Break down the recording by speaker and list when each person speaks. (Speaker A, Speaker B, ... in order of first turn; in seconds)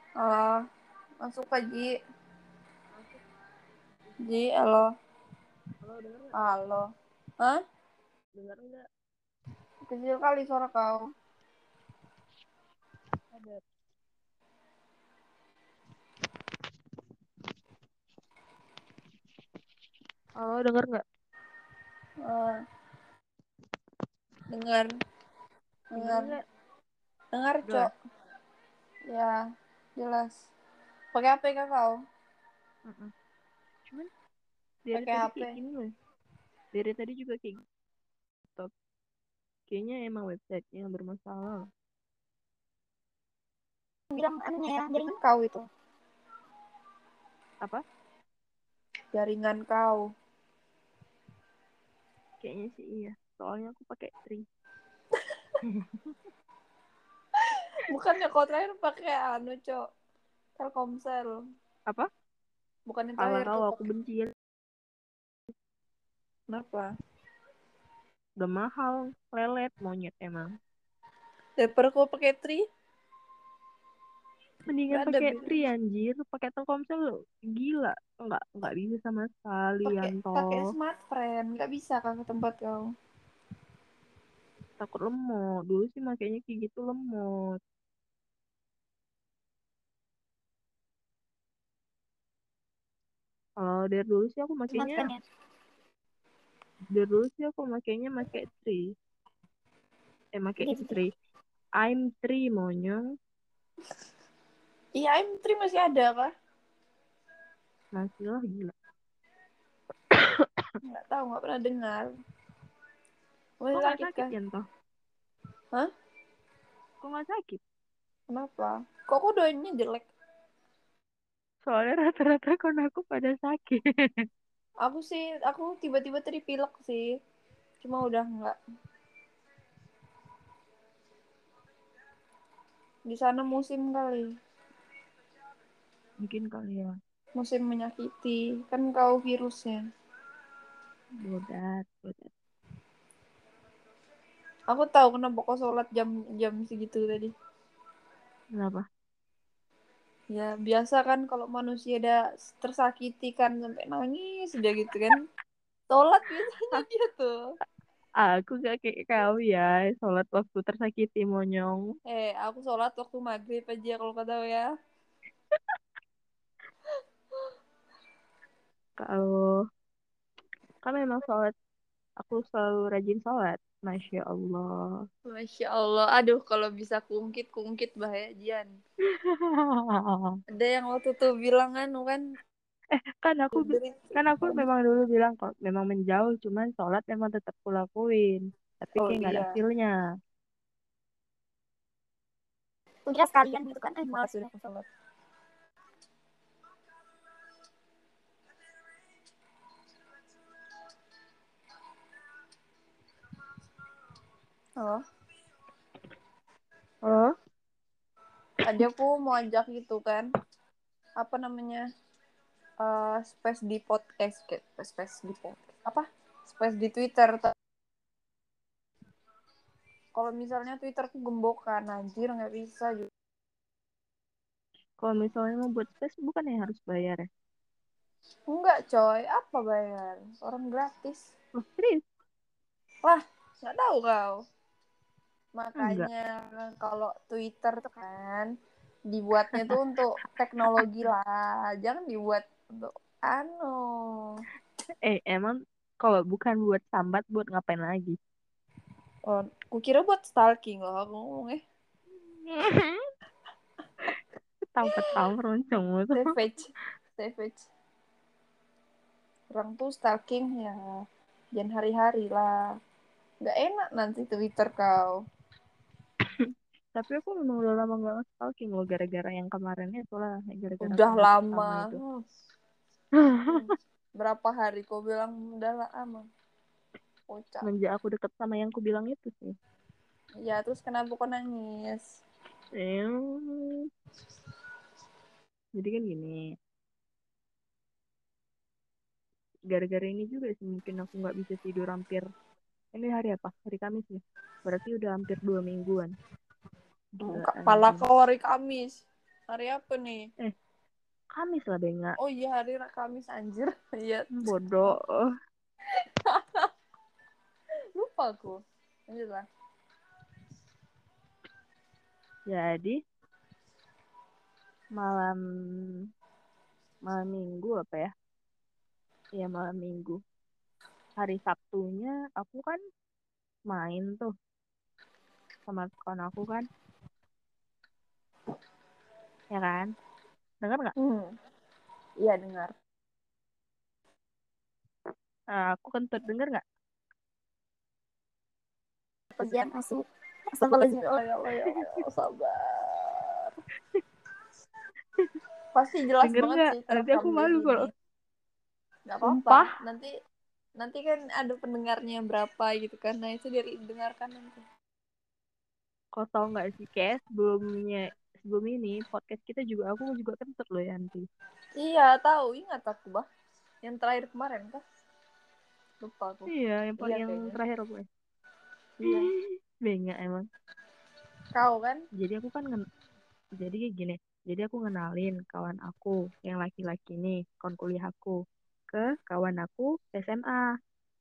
Speaker A: 0.2-0.6, 1.2-1.9, 4.3-4.9, 6.4-6.8, 9.9-11.0, 22.2-22.6, 24.5-24.9, 25.9-26.3, 27.3-27.9, 29.1-29.4, 30.0-30.4, 31.1-32.0, 34.9-35.5, 45.1-45.6, 49.1-50.1, 57.9-59.8, 60.6-61.4, 62.9-63.8, 66.5-66.9, 71.6-72.6, 74.9-75.6, 79.8-82.9, 105.0-106.3, 110.9-112.1, 113.6-114.3, 118.3-120.1, 124.8-127.1, 127.8-128.6, 133.1-134.3, 137.4-139.8, 144.7-147.3, 150.3-155.2, 155.9-157.3, 162.1-164.7, 175.3-178.7, 180.6-182.2, 183.5-184.7, 189.0-189.6, 194.0-194.9, 208.6-210.3, 211.2-211.8, 212.8-217.5, 220.2-223.1, 228.5-231.3, 233.1-234.3, 235.6-238.5, 239.1-244.4, 249.3-251.6, 256.1-257.7, 259.5-260.9, 261.6-262.5, 263.4-265.1, 270.8-272.2, 273.5-276.2, 277.3-277.7, 280.4-282.0, 297.2-300.2, 302.2-304.3, 306.2-306.7, 307.9-309.4, 331.0-331.3, 332.2-332.7, 340.6-343.5, 345.7-347.9, 349.1-350.1, 350.8-354.6, 361.8-363.2, 363.8-364.8, 366.0-367.6, 369.0-369.3, 371.5-372.0
Speaker B: 2.9-3.2, 5.8-6.4, 8.4-8.8, 13.3-13.6, 20.4-21.0, 25.9-26.4, 34.9-35.9, 36.7-37.6, 39.7-41.6, 52.4-54.4, 55.7-56.1, 63.2-64.3, 68.4-70.5, 74.7-80.7, 84.8-87.3, 93.6-95.0, 96.9-98.8, 100.3-101.1, 101.8-103.0, 108.0-108.7, 113.7-114.6, 117.0-117.6, 121.7-123.8, 136.2-136.9, 141.2-142.3, 148.6-148.8, 158.2-161.8, 169.0-169.6, 170.8-171.5, 172.2-174.7, 179.1-180.3, 182.9-189.9, 207.0-207.3, 225.0-227.2, 231.6-232.0, 235.8-236.1, 245.1-248.2, 252.4-253.0, 254.7-256.2, 266.9-272.0, 273.2-273.6, 277.6-279.5, 282.8-283.9, 285.8-286.5, 289.7-292.2, 292.9-296.1, 297.3-298.0, 301.3-302.1, 304.4-305.2, 312.5-313.0, 315.0-315.9, 317.1-318.1, 319.4-320.2, 321.2-322.8, 323.7-324.3, 325.7-326.7, 329.5-329.9, 330.6-330.9, 335.5-336.6, 346.2-347.9, 349.2-349.7, 356.2-361.2, 366.5-368.0, 369.0-370.4, 372.2-372.8, 373.6-378.4, 378.9-380.7
Speaker C: 44.1-45.1, 94.8-95.2, 100.6-101.0, 193.1-194.5, 339.4-340.0, 340.5-341.1